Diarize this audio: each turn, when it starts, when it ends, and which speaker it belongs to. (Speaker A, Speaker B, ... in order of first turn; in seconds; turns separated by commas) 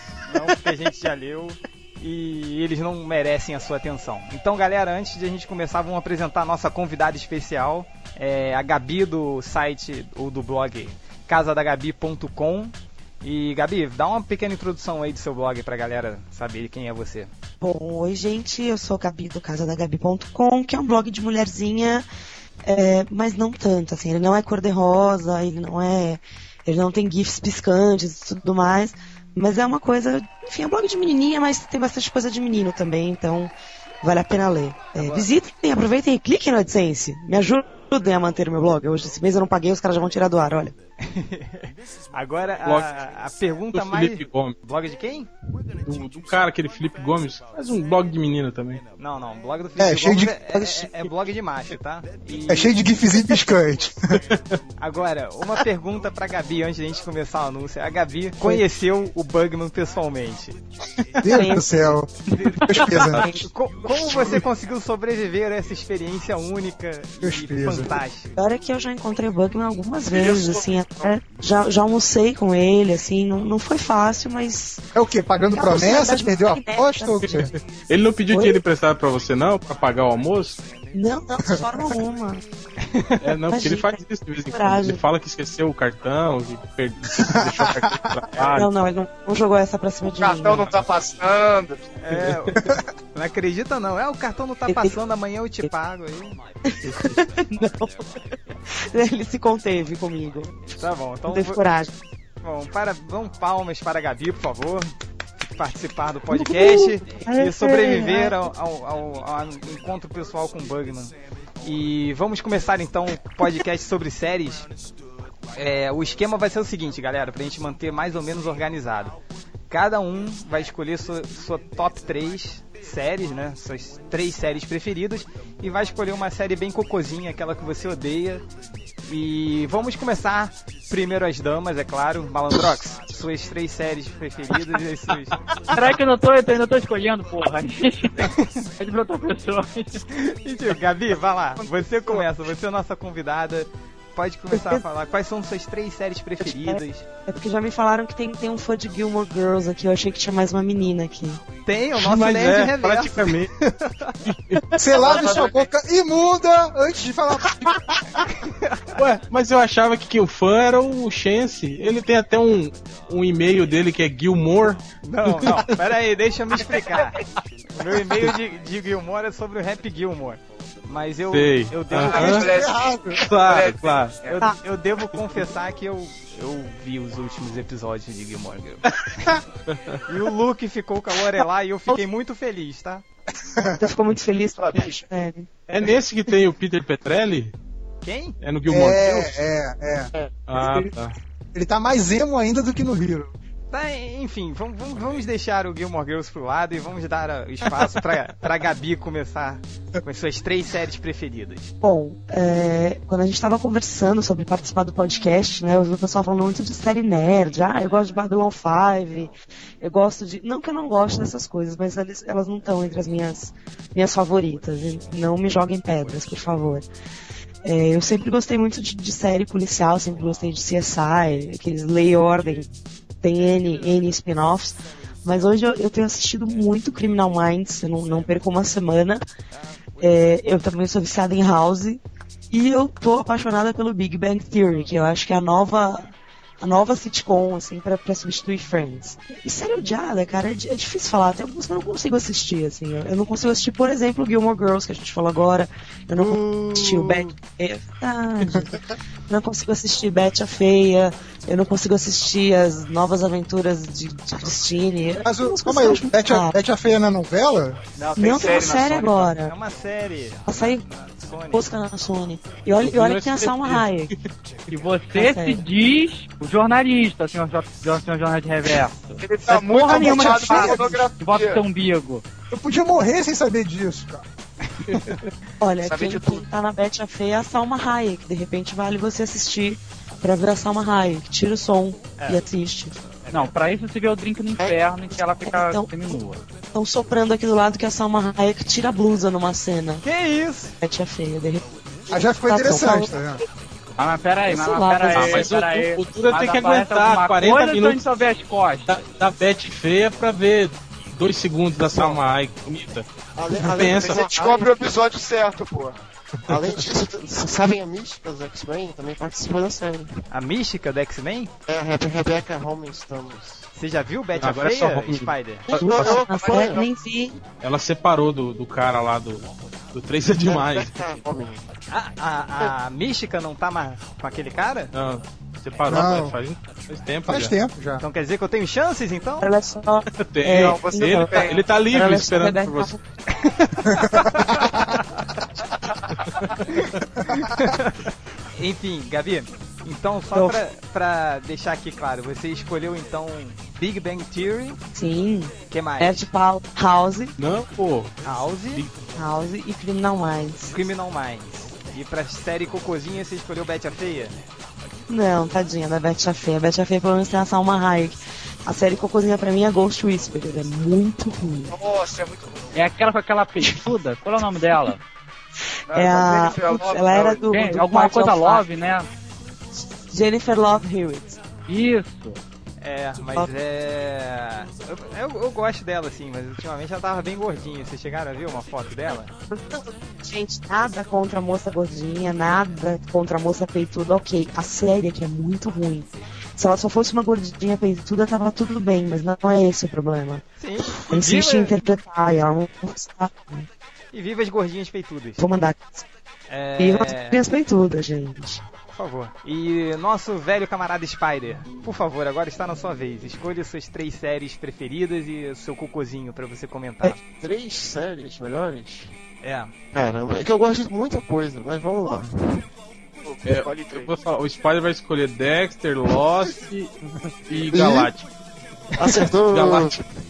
Speaker A: 0.3-17.3, Speaker B: 17.6-22.1, Speaker B: 22.6-40.8, Speaker A: 35.0-35.3, Speaker A: 41.0-45.3, Speaker C: 43.7-44.6, Speaker C: 45.8-48.8, Speaker A: 49.0-52.8, Speaker D: 49.8-50.9, Speaker D: 52.5-54.2, Speaker C: 54.3-54.6, Speaker A: 54.8-60.6, Speaker D: 61.2-62.1, Speaker B: 61.2-61.9, Speaker A: 62.3-68.4, Speaker D: 62.6-63.3, Speaker B: 63.1-63.5, Speaker D: 64.1-64.3, Speaker D: 67.2-68.0, Speaker B: 68.4-74.8, Speaker E: 70.1-71.1, Speaker D: 75.0-77.5, Speaker B: 75.5-77.5, Speaker C: 77.2-80.6, Speaker B: 78.3-78.6, Speaker B: 80.9-82.4, Speaker A: 82.8-83.2, Speaker C: 83.2-88.7, Speaker B: 83.5-85.0, Speaker D: 87.1-88.2, Speaker A: 88.3-88.6, Speaker B: 88.5-90.8, Speaker E: 90.0-91.8, Speaker A: 92.0-92.6, Speaker C: 92.1-92.6, Speaker A: 93.1-96.4, Speaker B: 94.7-95.0, Speaker B: 96.7-100.7, Speaker A: 100.8-101.6, Speaker B: 101.3-102.0, Speaker A: 102.4-114.7, Speaker B: 106.3-108.5, Speaker A: 115.5-119.2, Speaker A: 119.7-128.4, Speaker A: 129.1-135.4, Speaker F: 135.7-140.0, Speaker A: 138.2-138.6, Speaker A: 140.1-147.1, Speaker B: 144.5-144.8, Speaker B: 146.4-151.4, Speaker A: 151.7-154.2, Speaker C: 151.9-153.5, Speaker C: 154.2-154.6, Speaker B: 154.7-155.1, Speaker D: 154.8-157.8, Speaker A: 155.0-155.6, Speaker E: 155.0-155.5, Speaker A: 158.3-158.9, Speaker C: 158.9-165.6, Speaker A: 165.0-167.2, Speaker A: 167.7-172.4, Speaker C: 171.3-172.5, Speaker E: 172.0-174.4, Speaker D: 172.3-173.2, Speaker C: 173.2-174.2, Speaker A: 174.2-179.4, Speaker C: 179.7-180.0, Speaker A: 180.1-183.0, Speaker D: 183.5-183.8, Speaker B: 183.8-185.5, Speaker E: 184.6-185.1, Speaker C: 185.7-187.6, Speaker A: 188.0-188.4, Speaker C: 188.4-189.3, Speaker D: 188.7-190.9, Speaker C: 190.5-191.2, Speaker D: 191.5-193.3, Speaker A: 193.7-201.7, Speaker B: 201.8-216.9, Speaker B: 217.6-229.2, Speaker B: 230.0-256.6, Speaker D: 255.2-257.8, Speaker A: 258.1-261.7, Speaker B: 258.2-259.5, Speaker E: 258.2-259.1, Speaker F: 258.2-259.0, Speaker B: 260.5-260.8, Speaker B: 261.5-264.1, Speaker C: 262.8-264.2, Speaker F: 264.7-272.2, Speaker B: 265.1-265.6, Speaker E: 269.2-271.6, Speaker D: 269.9-271.0, Speaker B: 269.9-270.7, Speaker D: 272.5-274.2, Speaker A: 274.8-275.2, Speaker C: 274.9-275.2, Speaker B: 275.6-283.0, Speaker E: 275.8-276.4, Speaker A: 283.2-283.5, Speaker F: 283.3-286.4, Speaker B: 285.4-286.2, Speaker B: 286.7-290.0, Speaker A: 290.0-290.8, Speaker B: 290.8-293.2, Speaker D: 292.1-293.4, Speaker F: 294.0-299.0, Speaker B: 294.5-295.5, Speaker C: 295.1-298.1, Speaker C: 298.9-304.2, Speaker G: 303.4-304.8, Speaker E: 303.9-306.0, Speaker G: 306.5-310.1, Speaker A: 310.3-311.5, Speaker G: 311.7-313.6, Speaker A: 313.8-315.7, Speaker C: 314.4-315.9, Speaker G: 315.7-316.8, Speaker B: 315.8-317.4, Speaker E: 316.3-316.8, Speaker C: 317.6-321.0, Speaker G: 320.4-321.6, Speaker A: 321.9-324.9, Speaker C: 324.9-327.6, Speaker D: 325.9-326.4, Speaker D: 327.3-328.0, Speaker A: 328.0-329.5, Speaker B: 329.4-333.0, Speaker C: 330.2-332.9, Speaker E: 330.5-331.6, Speaker A: 333.3-334.8, Speaker D: 333.9-334.6, Speaker A: 336.7-344.8, Speaker B: 340.3-340.6, Speaker B: 344.9-347.4, Speaker A: 345.7-346.3, Speaker C: 347.4-348.9, Speaker A: 348.2-348.9, Speaker B: 349.1-350.8, Speaker A: 350.7-354.4, Speaker B: 355.1-361.7, Speaker E: 361.7-362.8, Speaker F: 362.7-365.0, Speaker E: 365.9-367.5, Speaker B: 365.9-368.6, Speaker F: 367.5-369.1, Speaker B: 369.8-371.4, Speaker F: 371.7-372.4, Speaker A: 372.8-379.3, Speaker B: 379.5-390.4, Speaker A: 390.6-391.8, Speaker B: 391.0-393.7, Speaker A: 394.1-395.4, Speaker B: 395.4-396.1, Speaker A: 396.5-397.4, Speaker B: 396.8-398.6, Speaker A: 398.9-407.2, Speaker G: 407.2-409.1, Speaker A: 409.4-409.7, Speaker G: 409.9-412.6, Speaker E: 413.2-414.1, Speaker C: 413.4-416.9, Speaker C: 417.5-418.3, Speaker G: 417.7-418.1, Speaker G: 419.0-420.1, Speaker C: 419.5-420.0